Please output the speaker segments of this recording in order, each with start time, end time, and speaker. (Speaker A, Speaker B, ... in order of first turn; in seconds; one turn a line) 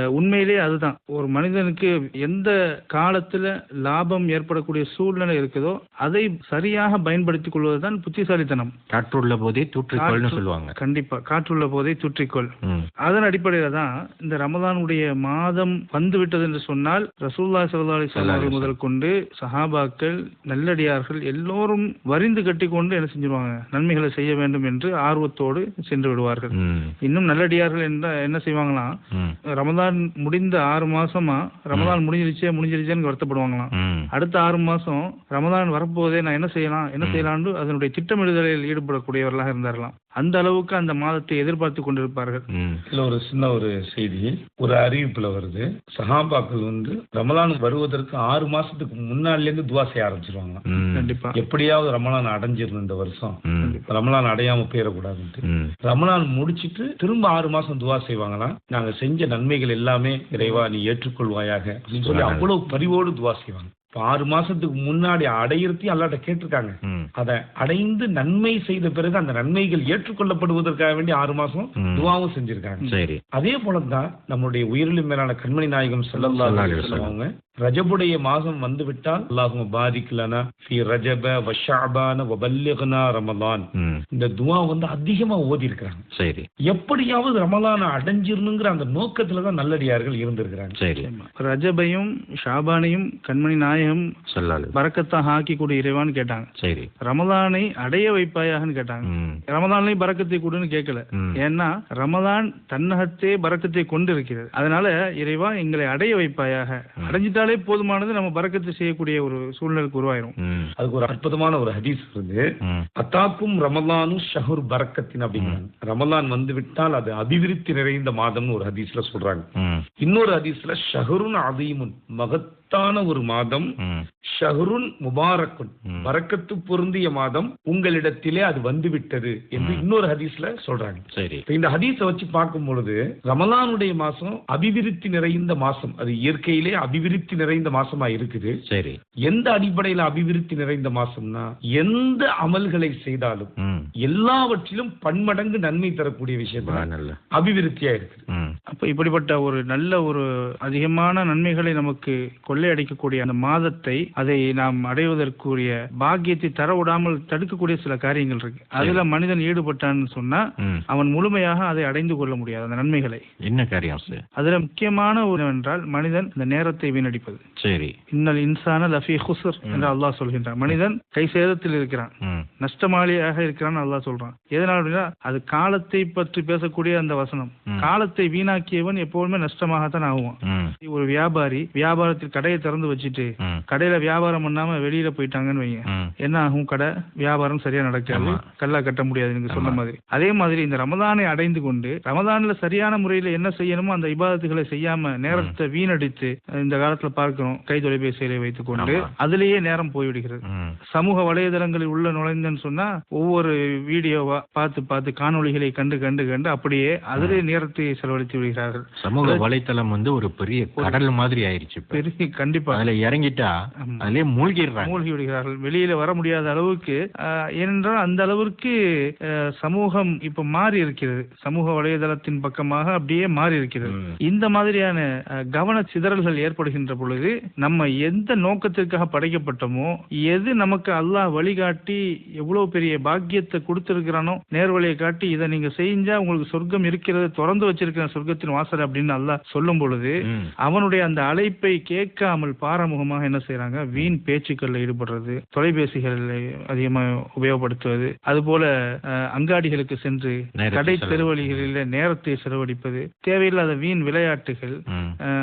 Speaker A: 0.1-8.7
Speaker B: 8.9-10.8
Speaker A: 10.0-12.5
Speaker B: 12.6-12.9
Speaker A: 13.1-26.5
Speaker B: 18.1-18.7
Speaker B: 26.5-26.9
Speaker A: 27.0-28.9
Speaker A: 29.6-42.4
Speaker B: 33.7-34.1
Speaker B: 37.0-37.3
Speaker B: 42.5-42.8
Speaker C: 42.9-50.6
Speaker B: 50.7-51.1
Speaker A: 50.9-51.4
Speaker C: 51.4-86.0
Speaker B: 53.5-53.8
Speaker B: 55.5-55.8
Speaker B: 62.0-62.5
Speaker B: 71.8-72.1
Speaker B: 72.9-73.2
Speaker A: 76.2-77.0
Speaker B: 76.4-77.2
Speaker B: 83.8-84.0
Speaker B: 86.2-86.5
Speaker C: 86.7-90.8
Speaker B: 90.8-91.1
Speaker A: 91.0-94.1
Speaker B: 94.3-94.8
Speaker A: 94.8-96.5
Speaker B: 96.6-96.9
Speaker A: 97.0-110.3
Speaker B: 99.0-99.4
Speaker B: 110.4-110.7
Speaker C: 110.8-112.5
Speaker C: 113.0-119.5
Speaker B: 115.3-115.6
Speaker B: 119.6-119.9
Speaker C: 120.0-123.8
Speaker B: 123.8-124.1
Speaker C: 124.3-138.6
Speaker B: 129.6-129.9
Speaker B: 131.1-131.4
Speaker B: 138.7-139.0
Speaker C: 139.3-148.2
Speaker B: 143.6-143.9
Speaker B: 146.6-147.2
Speaker B: 148.3-148.6
Speaker A: 148.7-163.2
Speaker B: 158.8-159.0
Speaker B: 160.6-160.8
Speaker B: 163.4-164.2
Speaker A: 164.4-167.4
Speaker B: 167.6-168.0
Speaker A: 168.1-209.4
Speaker B: 169.7-169.9
Speaker B: 172.2-172.5
Speaker B: 180.4-180.7
Speaker B: 185.9-186.1
Speaker B: 188.1-188.4
Speaker B: 189.5-189.8
Speaker B: 195.3-195.6
Speaker B: 198.8-199.1
Speaker B: 200.4-200.8
Speaker B: 209.0-212.0
Speaker A: 211.9-212.8
Speaker B: 212.7-215.0
Speaker A: 214.8-217.0
Speaker A: 217.6-218.7
Speaker A: 219.6-225.0
Speaker B: 223.8-224.2
Speaker A: 225.5-248.7
Speaker B: 240.2-240.5
Speaker A: 249.2-254.8
Speaker B: 250.6-251.7
Speaker B: 254.9-255.2